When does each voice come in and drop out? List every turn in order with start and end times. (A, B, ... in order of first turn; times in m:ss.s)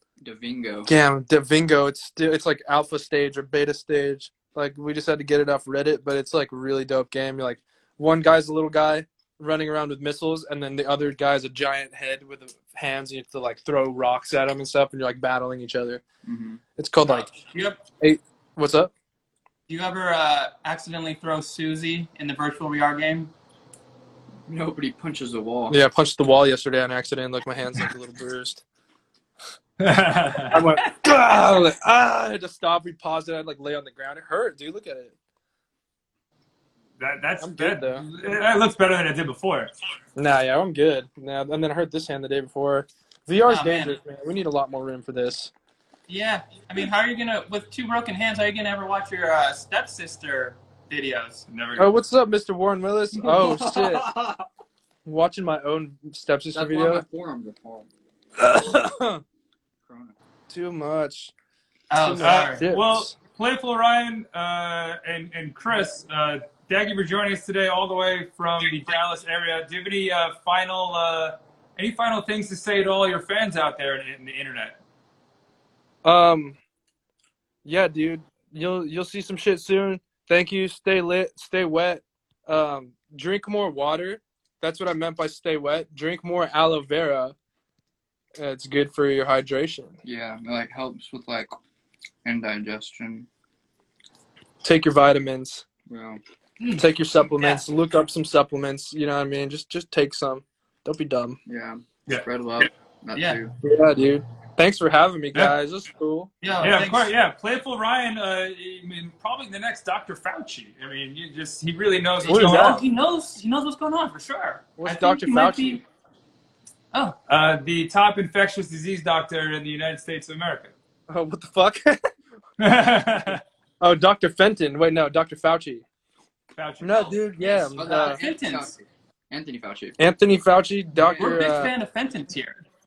0:00.2-0:00.9 A
0:00.9-0:16.0 B
0:16.2-0:16.6 A
0:16.8-0:17.3 B
0:17.0-0:17.8 C
0:18.0-0:18.9 B
0:19.7-0:23.3 C
0:24.5-0:25.8 A
0:25.7-0:28.6 B
0:29.8-0:30.7 D
0:30.5-0:35.1 B
0:37.0-0:39.7 D
0:37.4-0:38.0 B
0:40.2-0:45.5 B
0:43.5-0:44.0 C
0:46.1-0:51.4 C
0:51.5-0:52.0 D
0:51.8-0:54.2 B
0:53.3-0:54.0 C
0:55.0-0:57.0 B
0:56.5-0:57.9 A
0:58.4-0:59.2 B
0:59.9-1:00.2 A
1:00.5-1:01.3 B
1:01.9-1:02.6 C
1:02.0-1:03.1 B
1:02.2-1:14.8 D
1:16.0-1:16.6 B
1:17.6-1:27.4 B
1:28.4-1:30.0 B
1:30.0-1:31.6 A
1:32.2-1:33.3 A
1:34.6-1:35.6 B
1:35.9-1:36.2 A
1:36.6-1:37.6 C
1:36.8-1:41.4 B
1:41.5-1:43.6 A
1:43.1-1:43.4 C
1:43.6-1:46.3 B
1:46.4-1:47.1 C
1:46.6-1:52.8 D
1:52.2-1:52.8 B
1:52.2-1:55.8 C
1:54.8-1:55.8 B
1:57.3-2:00.7 D
2:01.1-2:02.1 B
2:02.6-2:03.4 D
2:03.3-2:05.8 B
2:06.6-2:07.2 D
2:06.8-2:08.2 B
2:07.4-2:08.7 C
2:07.4-2:10.1 A
2:10.0-2:11.7 B
2:11.0-2:11.5 A
2:11.2-2:12.6 C